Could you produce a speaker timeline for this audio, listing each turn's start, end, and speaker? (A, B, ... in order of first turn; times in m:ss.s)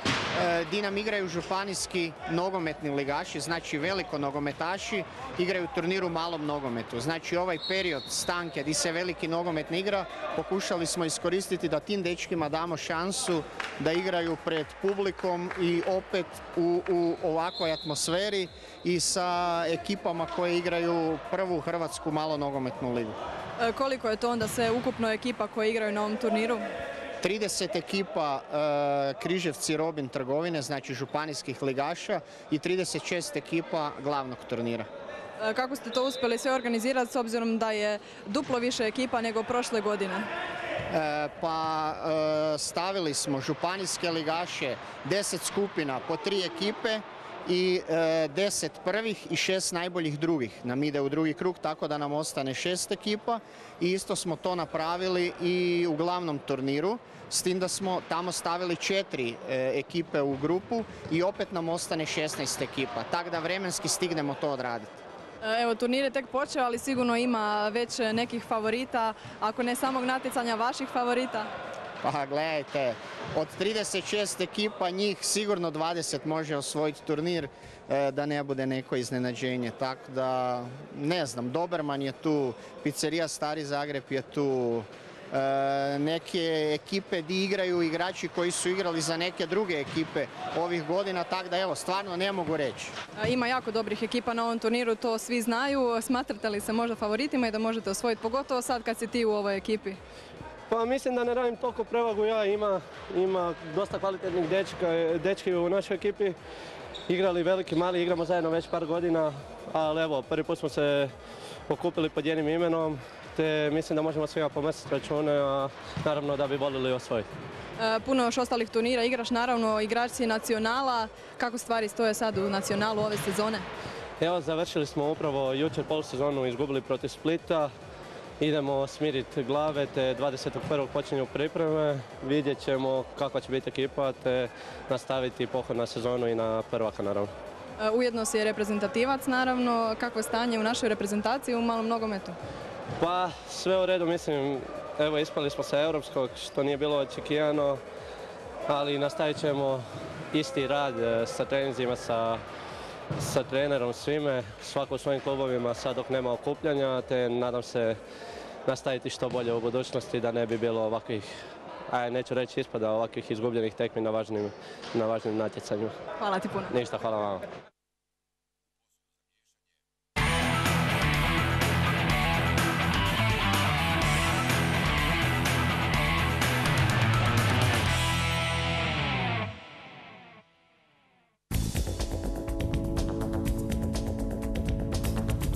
0:00.4-0:23.2 A
0:23.6-0:26.6 B
0:27.2-0:34.9 A
0:35.4-0:40.3 B
0:40.9-1:04.9 A
1:05.4-1:11.5 B
1:12.0-1:33.0 A
1:33.2-1:40.0 B
1:40.7-1:46.4 C
1:47.1-1:51.1 C
1:51.7-1:57.3 C
1:57.8-2:03.7 B
2:04.2-2:07.7 C
2:08.4-2:17.3 C
2:17.8-2:22.4 B
2:23.0-2:27.8 C
2:28.7-2:32.4 C
2:33.2-2:38.0 C
2:38.7-2:41.4 C
2:41.9-2:45.9 C
2:46.2-2:46.7 B
2:46.7-2:47.4 C